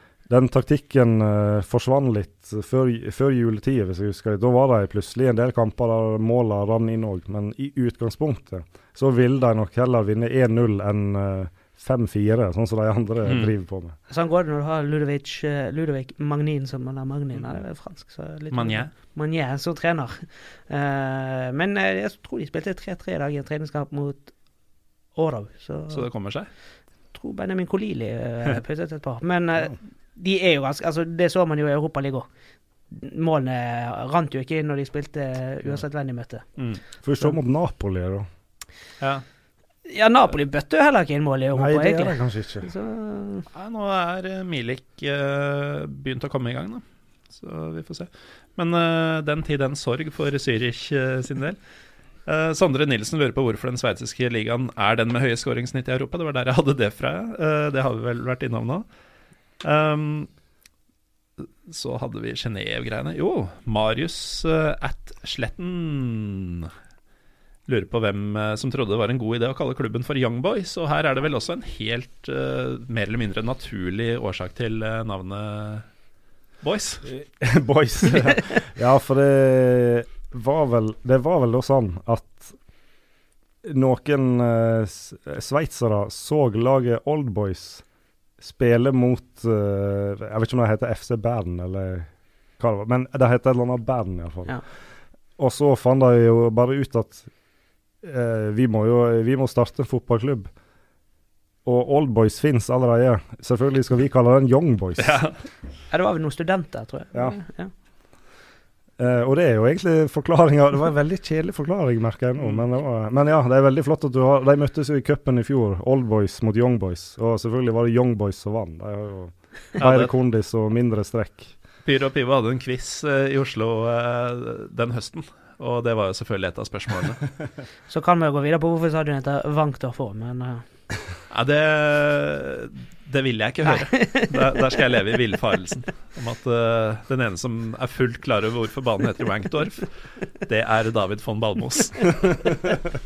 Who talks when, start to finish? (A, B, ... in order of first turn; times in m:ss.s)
0:00.3-0:13.9 A
0:13.2-0:13.5 B
0:14.1-0:24.3 C
0:18.5-0:18.9 B
0:25.1-0:26.1 C
0:25.9-0:26.5 B
0:27.1-0:32.3 C
0:32.9-0:36.4 C
0:37.0-0:38.3 A
0:39.9-0:43.4 C
0:41.5-0:42.7 A
0:43.5-0:51.6 B
0:52.2-0:58.8 B
0:59.6-1:00.3 B
1:01.4-1:06.7 B
1:07.6-1:15.8 B
1:16.6-1:17.0 B
1:17.0-1:22.6 A
1:23.6-1:27.8 A
1:28.4-1:34.6 A
1:35.4-1:37.3 A
1:38.0-1:40.5 A
1:41.6-1:45.2 A
1:45.0-1:45.4 B
1:45.9-1:47.7 C
1:49.0-2:01.5 A
1:59.8-2:00.1 B
2:01.8-2:07.3 B
2:07.9-2:10.6 C
2:11.3-2:22.3 B
2:13.7-2:14.6 C